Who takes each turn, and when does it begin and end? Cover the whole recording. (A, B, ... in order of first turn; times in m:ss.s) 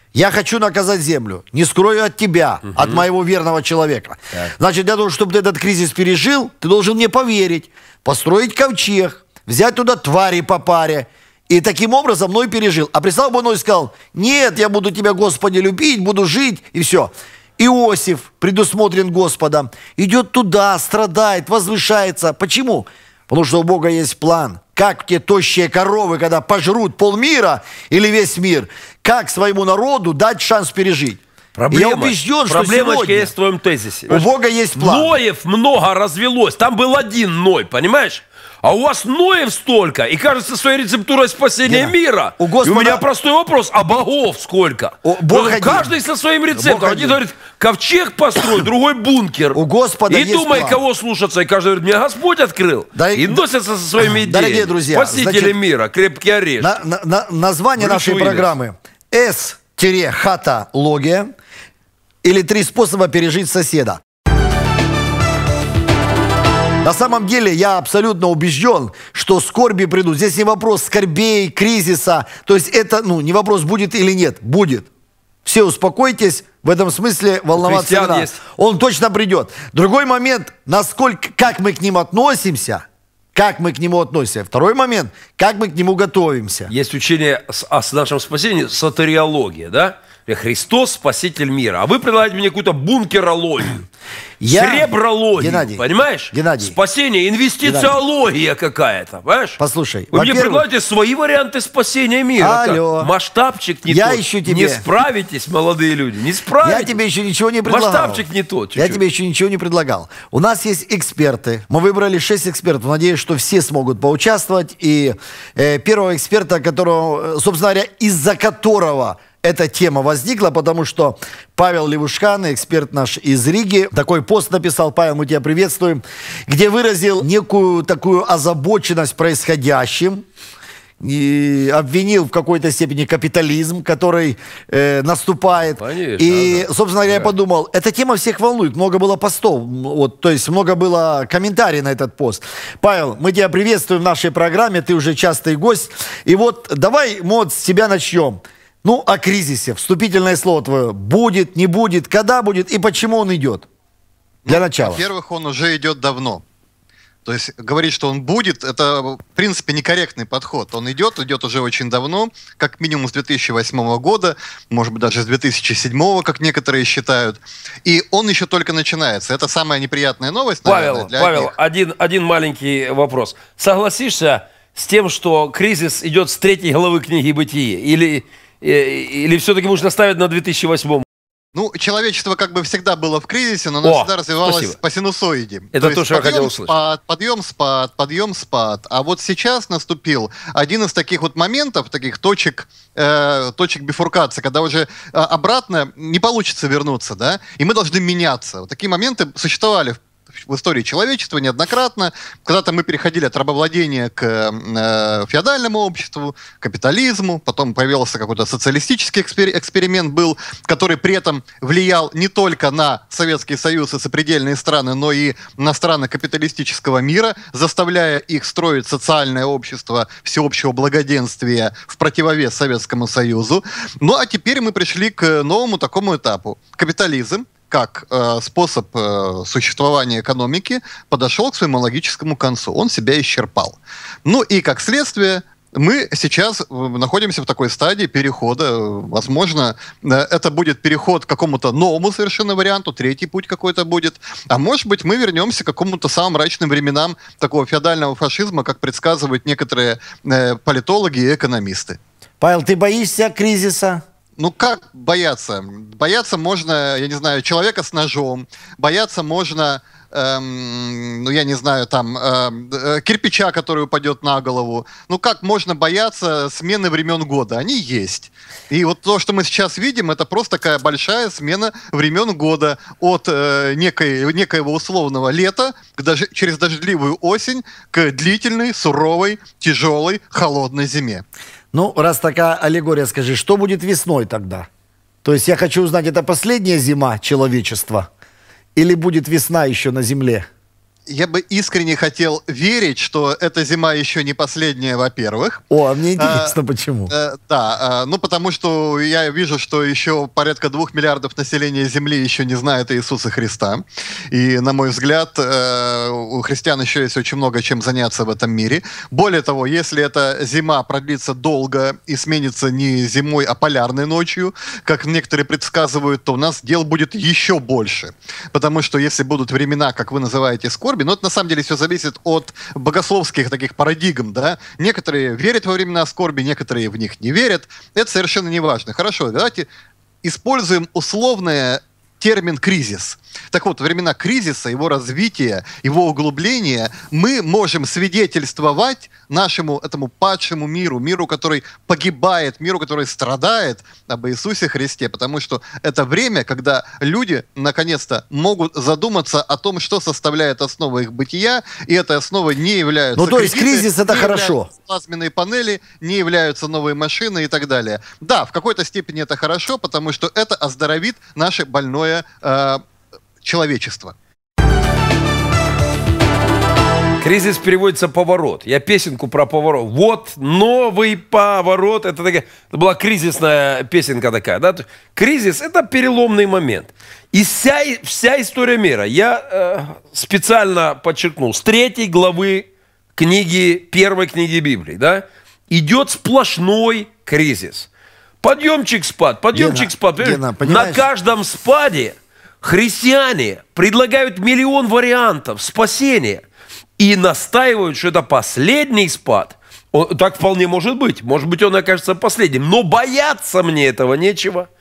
0:00.1-0:33.3 A
0:02.7-0:03.0 B
0:31.6-0:56.8 B
0:34.1-0:35.1 A
0:41.6-0:43.0 A
0:45.0-0:45.9 A
0:46.5-0:47.2 A
0:49.5-0:50.8 A
0:52.9-0:53.4 A
0:54.0-0:55.6 A
0:56.6-1:01.3 A
0:57.8-0:58.5 B
1:02.2-1:04.0 A
1:06.8-1:14.9 A
1:15.4-1:26.7 A
1:17.6-1:18.4 B
1:26.7-1:33.8 B
1:34.4-1:36.8 A
1:34.5-1:39.6 B
1:37.6-1:37.9 A
1:39.6-1:40.6 A
1:40.1-1:47.0 B
1:42.4-1:43.1 A
1:43.9-1:44.8 A
1:46.6-2:10.2 A
1:47.7-1:49.0 B
2:11.0-2:33.7 A
2:15.8-2:17.3 B
2:34.4-2:36.4 C
2:34.5-2:35.0 A
2:37.2-2:51.5 C
2:50.6-3:01.0 B
3:01.5-4:12.0 C
3:03.8-3:04.8 B
3:05.7-3:06.7 B
4:12.4-4:14.0 A
4:14.4-4:41.2 C
4:41.7-4:44.7 A
4:45.2-4:48.1 A
4:48.8-4:50.5 A
4:51.1-4:55.6 C
4:55.7-4:57.1 A
4:56.2-4:56.6 C
4:57.1-5:29.7 C
5:30.2-6:02.8 C
5:53.2-5:54.7 A
6:03.4-6:04.1 C
6:07.2-6:27.9 B
6:28.4-6:36.4 B
6:29.5-6:31.1 A
6:37.0-6:44.7 B